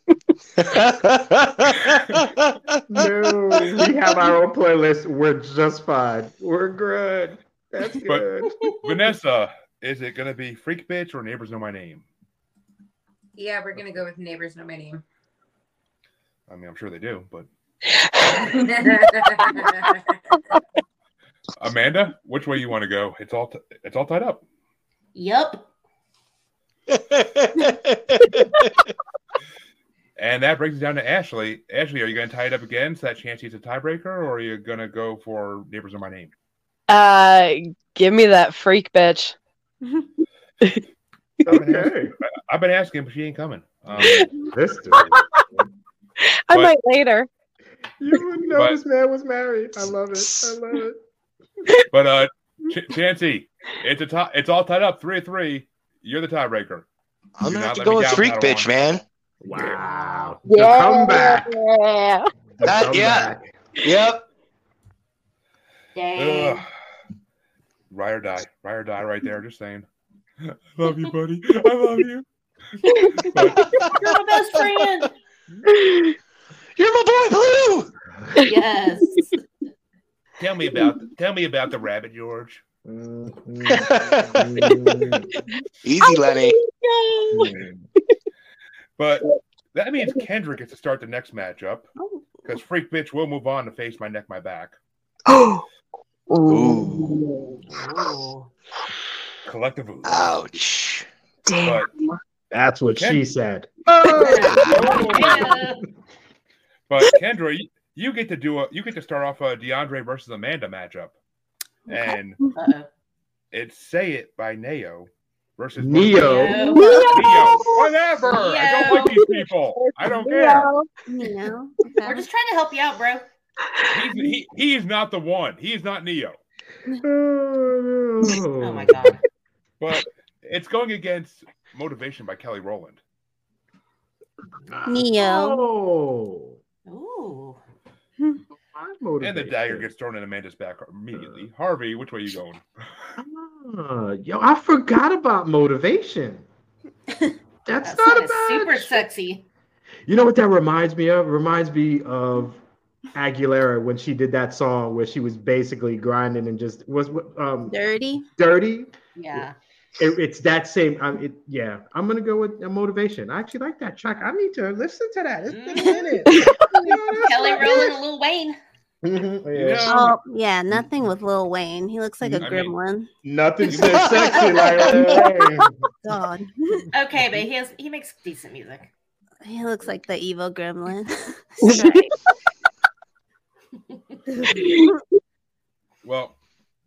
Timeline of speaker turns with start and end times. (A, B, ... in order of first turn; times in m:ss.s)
0:00.6-0:03.0 A
0:02.9-0:08.6 B
0:08.8-0:12.0 C
0:13.4-0:15.0 D
0:16.5-0:17.5 C
0:17.9-0:19.9 E
0:18.5-0:20.2 D
0:21.6-0:24.4 C
0:25.1-0:25.6 F
0:26.9-0:28.6 A
0:30.2-0:36.3 C
0:36.9-0:39.4 E
0:41.5-0:42.1 B
0:41.5-0:44.3 C
0:43.9-0:45.7 B
0:45.0-0:45.4 E
0:46.5-0:47.3 E
0:48.0-0:51.0 B
0:51.9-0:56.9 C
0:57.4-0:59.0 A
0:57.4-0:58.7 C
0:59.4-1:01.5 B
0:59.7-1:00.4 F
1:00.4-1:02.3 E
1:02.6-1:03.5 B
1:02.6-1:04.2 A
1:06.0-1:06.6 F
1:06.2-1:06.7 C
1:07.9-1:09.9 C
1:10.4-1:12.2 C
1:13.2-1:13.9 C
1:13.8-1:15.1 F
1:15.7-1:16.1 E
1:16.8-1:17.9 A
1:18.4-1:19.3 F
1:20.4-1:22.6 C
1:22.8-1:25.3 B
1:23.7-1:24.6 A
1:25.8-1:26.6 A
1:26.0-1:27.6 E
1:27.3-1:27.8 B
1:29.0-1:31.9 C
1:32.4-1:34.8 C
1:35.3-1:35.6 E
1:36.3-1:37.6 E
1:36.5-1:37.2 A
1:37.6-1:38.5 F
1:39.4-1:40.4 C
1:40.0-1:41.1 A
1:41.5-1:42.2 E
1:41.6-1:41.9 C
1:42.5-1:45.5 B
1:43.0-1:43.2 C
1:44.2-1:45.8 F
1:44.6-1:45.5 C
1:46.9-1:51.2 C
1:51.9-1:52.4 C
1:52.6-1:52.9 F
1:53.5-1:56.5 C
1:55.8-1:56.7 B
1:56.2-1:57.1 F
1:56.3-1:57.4 G
1:56.8-1:57.9 E
1:57.1-2:00.7 C
1:58.3-1:59.2 F
1:58.9-2:00.9 E
2:01.1-2:02.3 G
2:02.0-2:03.2 F
2:03.9-2:06.4 C
2:07.0-2:09.2 B
2:08.6-2:09.2 F
2:09.8-2:13.0 C
2:14.7-2:16.6 B
2:14.9-2:15.7 G
2:16.9-2:17.6 F
2:18.6-2:19.9 B
2:19.2-2:23.1 C
2:21.1-2:21.4 B
2:23.2-2:26.5 B
2:27.6-2:29.1 B
2:27.8-2:29.5 F
2:30.1-2:32.6 B
2:33.1-2:37.8 B
2:37.7-2:38.3 G
2:38.4-2:39.4 B
2:39.2-2:39.6 F
2:40.0-2:47.9 B
2:45.5-2:46.2 F
2:46.3-2:46.6 E
2:47.1-2:48.6 F
2:49.0-2:49.9 B
2:49.5-2:50.2 C
2:49.8-2:53.1 G
2:52.4-2:52.8 C
2:53.2-2:55.7 B
2:53.7-2:54.8 C
2:56.0-2:56.8 G
2:56.9-2:58.9 F
2:59.4-3:02.0 G
3:01.6-3:02.0 E
3:04.4-3:05.0 E
3:06.0-3:06.4 C